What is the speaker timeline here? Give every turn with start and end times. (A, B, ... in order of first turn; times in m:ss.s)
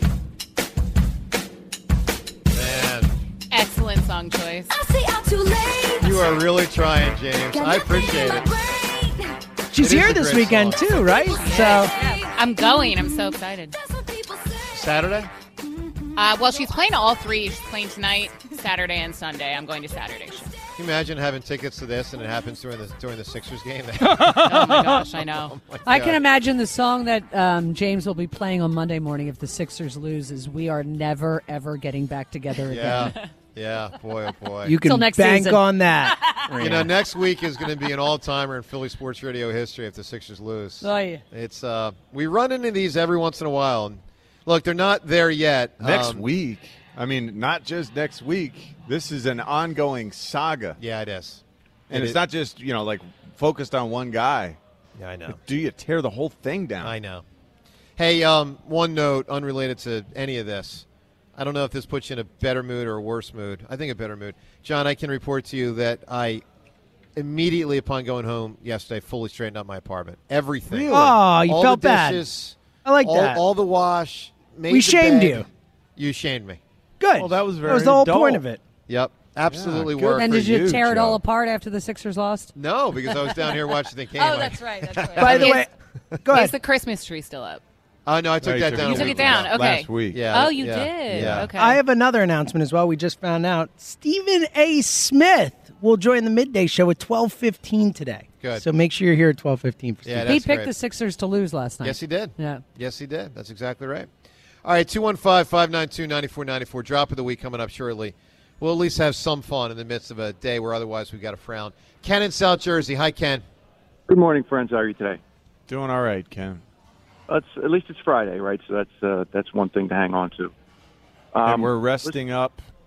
0:02.5-0:03.1 A
0:03.5-0:04.8 B
0:05.9-0:08.6 A
0:09.7-0:11.9 C
0:09.8-0:10.9 A
0:11.3-0:13.8 B
0:14.7-0:15.3 A
0:16.2-0:20.6 B
0:20.8-0:26.2 A
0:24.3-0:25.5 B
0:25.8-0:33.1 D
0:32.7-0:34.7 A
0:34.6-0:36.9 C
0:34.8-0:35.6 D
0:36.6-0:46.2 A
0:40.8-0:41.2 D
0:45.8-0:50.8 E
0:50.8-0:52.2 A
0:51.9-0:54.6 E
0:55.0-0:55.4 A
0:55.3-0:57.0 E
0:56.8-0:57.2 A
0:58.0-1:06.4 A
1:07.2-1:16.6 A
1:10.8-1:12.2 C
1:12.8-1:13.4 C
1:14.7-1:15.4 C
1:17.0-1:18.6 C
1:17.2-1:18.4 E
1:18.9-1:20.4 A
1:19.5-1:21.2 E
1:20.1-1:22.5 D
1:22.5-1:25.6 A
1:24.2-1:25.4 D
1:25.2-1:25.7 C
1:25.3-1:25.6 B
1:26.2-1:26.5 C
1:26.3-1:27.6 B
1:28.0-1:31.5 A
1:28.4-1:30.3 E
1:28.9-1:31.8 B
1:31.1-1:31.5 E
1:31.5-1:40.3 C
1:38.4-1:38.6 A
1:40.0-1:40.7 A
1:40.2-1:42.6 D
1:41.8-1:44.1 A
1:44.6-1:53.4 A
1:54.1-1:55.2 F
1:55.7-1:56.6 E
1:57.3-2:00.5 F
2:01.3-2:02.2 F
2:01.4-2:02.6 E